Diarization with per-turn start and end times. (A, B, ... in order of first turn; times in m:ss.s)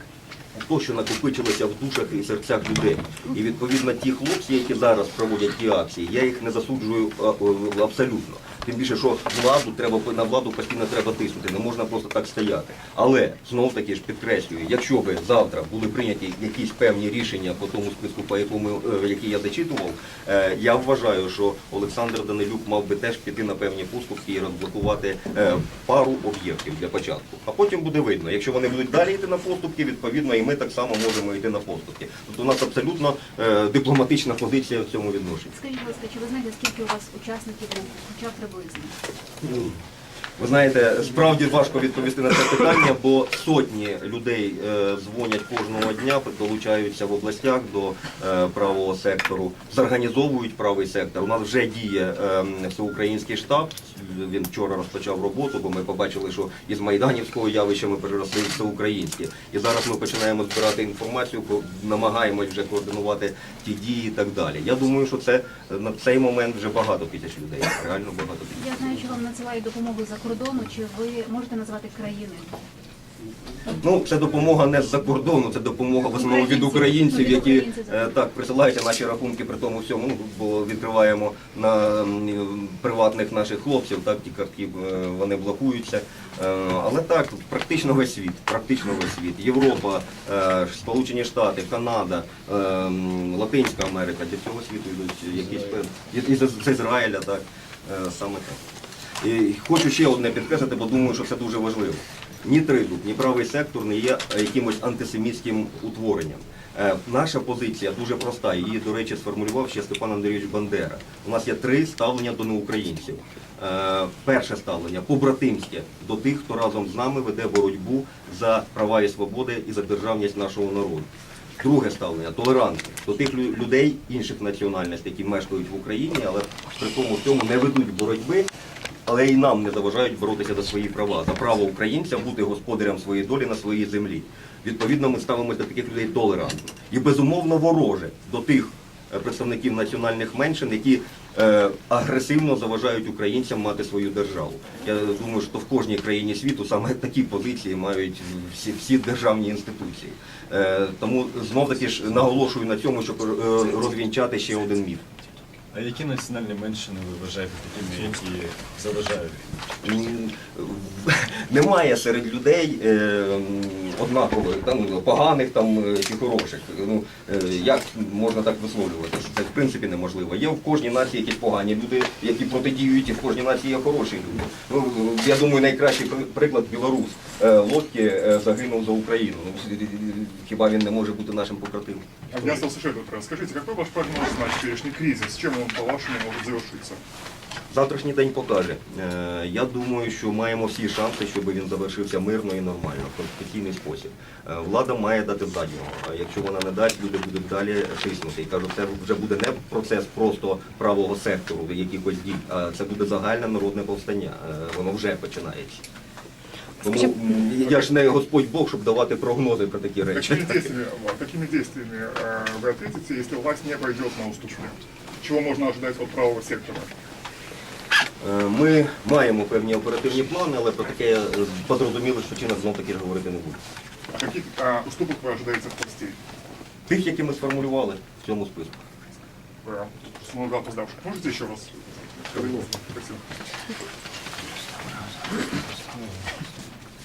0:00.5-0:35.5 A
0:35.5-0:38.9 B
0:39.4-0:39.8 A
0:40.4-1:09.0 A
1:08.5-1:12.5 B
1:13.8-1:38.6 A
1:16.1-1:18.2 B
1:39.2-2:08.5 A
2:09.1-2:35.1 A
2:35.7-2:39.6 C
2:39.8-3:02.7 A
3:02.3-3:07.0 D
3:07.7-3:25.8 A
3:26.8-3:30.7 A
3:30.1-3:36.9 D
3:38.2-3:43.6 A
3:44.1-3:46.2 D
3:46.9-3:48.8 A
3:49.6-3:53.2 D